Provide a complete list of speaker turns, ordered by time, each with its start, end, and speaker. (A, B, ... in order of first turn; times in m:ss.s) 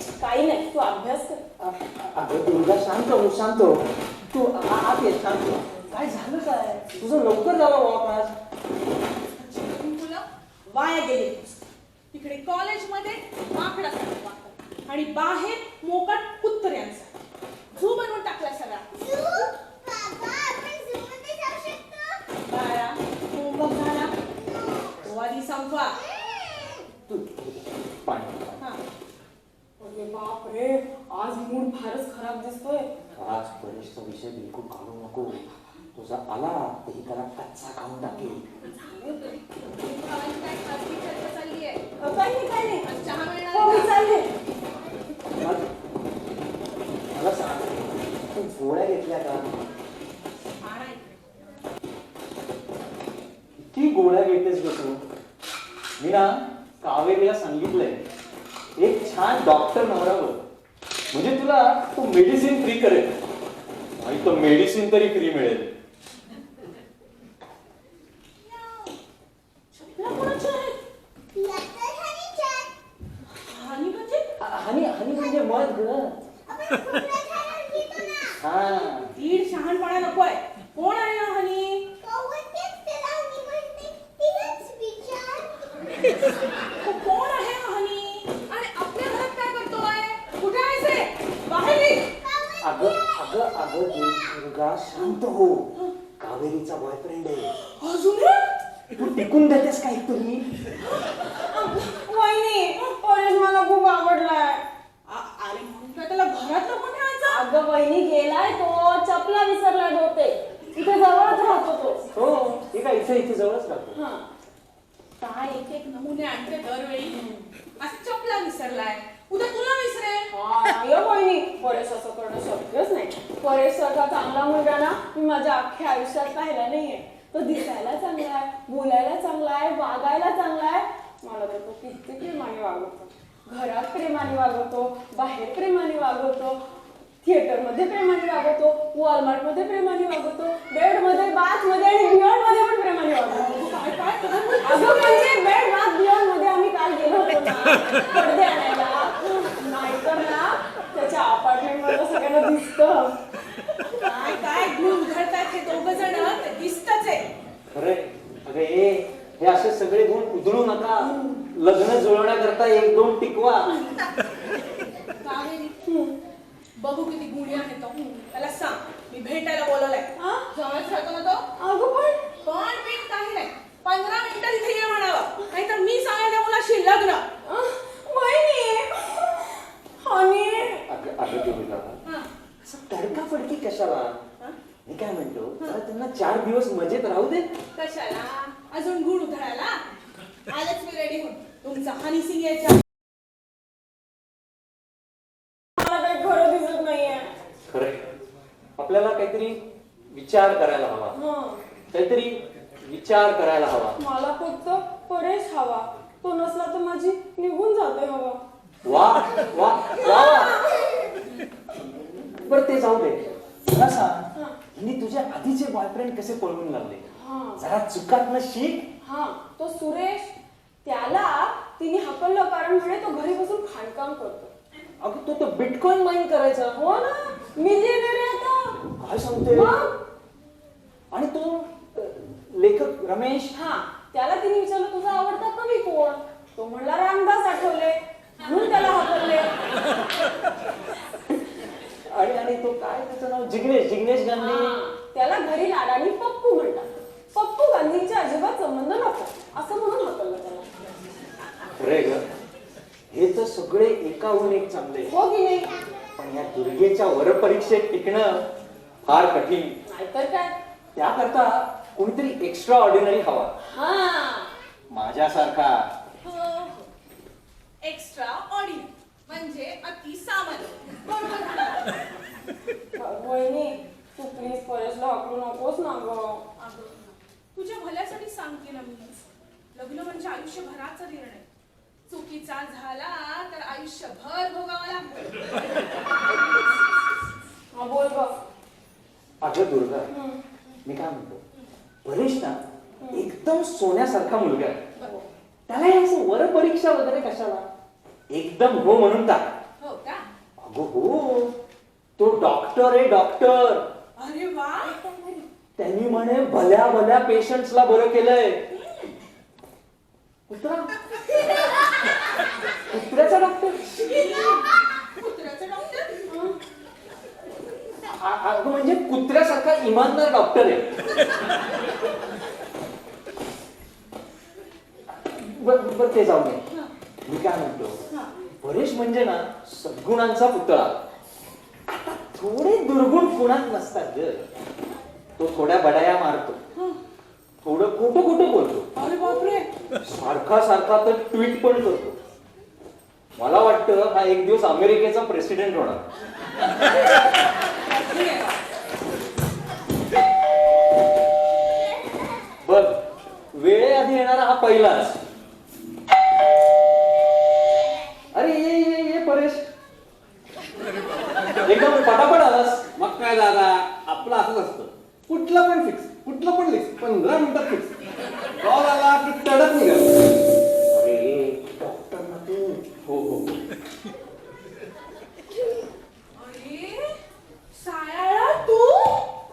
0:00.2-0:01.4 A
0:01.6-0:08.3 B
0:09.4-0:11.5 C
0:12.1-0:17.1 C
0:17.7-0:18.9 C
0:18.9-0:22.2 D
0:22.4-0:24.1 C
0:24.5-0:24.9 D
0:25.0-0:25.9 C
0:26.1-0:26.8 D
0:27.1-0:28.6 B
0:29.8-0:32.9 A
0:33.2-0:38.4 B
0:38.9-0:41.8 C
0:42.0-0:42.8 A
0:42.8-0:43.9 C
0:43.5-0:44.3 A
0:45.4-0:45.7 B
0:47.1-0:49.4 B
0:50.6-0:51.0 C
0:53.6-0:55.0 B
0:56.0-0:58.0 B
0:58.8-1:00.4 B
1:01.1-1:03.1 B
1:04.0-1:05.7 B
1:09.7-1:10.8 C
1:11.3-1:12.7 D
1:13.3-1:14.3 C
1:14.4-1:16.2 B
1:16.5-1:18.4 D
1:18.4-1:19.1 B
1:19.1-1:21.8 C
1:22.0-1:25.6 D
1:26.8-1:32.1 C
1:32.2-1:33.1 D
1:32.6-1:37.5 B
1:37.6-1:38.5 C
1:39.0-1:40.4 B
1:41.4-1:44.6 A
1:45.1-1:47.4 C
1:47.2-1:52.0 A
1:52.1-1:54.0 B
1:53.9-1:54.3 A
1:55.2-1:57.2 C
1:57.1-1:57.5 A
1:57.8-2:00.3 C
2:00.3-2:16.6 A
2:17.2-2:23.6 A
2:23.3-2:25.3 C
2:24.6-2:33.2 A
2:34.0-2:37.2 C
2:34.0-2:34.5 A
2:37.7-2:43.8 B
2:41.0-2:41.4 A
2:43.7-2:44.1 C
2:45.2-2:45.7 C
2:45.8-2:46.1 A
2:46.8-2:51.4 C
2:50.2-2:50.5 A
2:51.6-2:52.3 A
2:52.4-2:57.2 C
2:57.4-3:00.8 A
3:00.9-3:02.0 B
3:02.6-3:04.2 B
3:04.8-3:07.5 B
3:07.7-3:09.8 C
3:10.5-3:12.8 C
3:15.8-3:17.3 A
3:17.7-3:18.0 B
3:18.8-3:21.2 B
3:21.1-3:21.6 A
3:21.9-3:24.0 B
3:24.0-3:28.4 A
3:28.8-3:30.6 B
3:30.0-3:30.4 A
3:32.3-3:38.9 B
3:37.1-3:37.6 A
3:39.0-3:44.5 A
3:45.0-3:46.8 B
3:46.7-3:48.8 A
3:49.0-3:49.8 B
3:49.5-3:49.9 A
3:51.1-3:53.5 B
3:53.5-3:59.6 A
4:02.1-4:04.8 B
4:04.4-4:10.7 A
4:11.8-4:12.2 B
4:13.1-4:15.2 B
4:15.0-4:15.7 A
4:16.2-4:18.4 B
4:19.0-4:19.8 B
4:19.8-4:20.5 A
4:21.0-4:23.5 B
4:23.6-4:24.5 A
4:24.9-4:25.9 B
4:26.2-4:26.9 C
4:27.8-4:31.9 C
4:33.0-4:36.4 A
4:36.6-4:41.4 C
4:42.1-4:46.8 C
4:47.7-4:48.3 A
4:49.4-4:50.1 B
4:50.1-4:50.4 A
4:50.8-4:51.4 B
4:52.0-4:52.6 B
4:53.0-4:53.3 A
4:53.1-4:54.8 B
4:55.7-4:57.6 B
4:58.3-4:59.5 B
4:59.8-5:00.2 C
5:00.6-5:01.5 B
5:02.2-5:03.9 B
5:04.2-5:05.0 C
5:04.9-5:05.4 A
5:05.8-5:08.6 B
5:08.7-5:09.1 C
5:10.5-5:10.9 B
5:12.9-5:13.9 B
5:13.9-5:16.2 C
5:16.3-5:16.6 A
5:18.1-5:21.0 B
5:25.1-5:26.6 B
5:27.2-5:28.0 B
5:28.6-5:31.0 B
5:31.9-5:34.4 B
5:35.4-5:36.6 B
5:37.6-5:38.9 B
5:38.9-5:39.7 C
5:40.0-5:42.2 B
5:43.4-5:46.0 B
5:47.8-5:48.6 C
5:52.6-5:53.0 B
5:53.5-5:55.2 B
5:58.3-5:59.7 B
6:01.6-6:02.8 B
6:03.0-6:07.9 E
6:08.6-6:10.2 E
6:10.9-6:12.8 B
6:13.0-6:13.5 E
6:16.4-6:17.2 C
6:17.7-6:19.2 C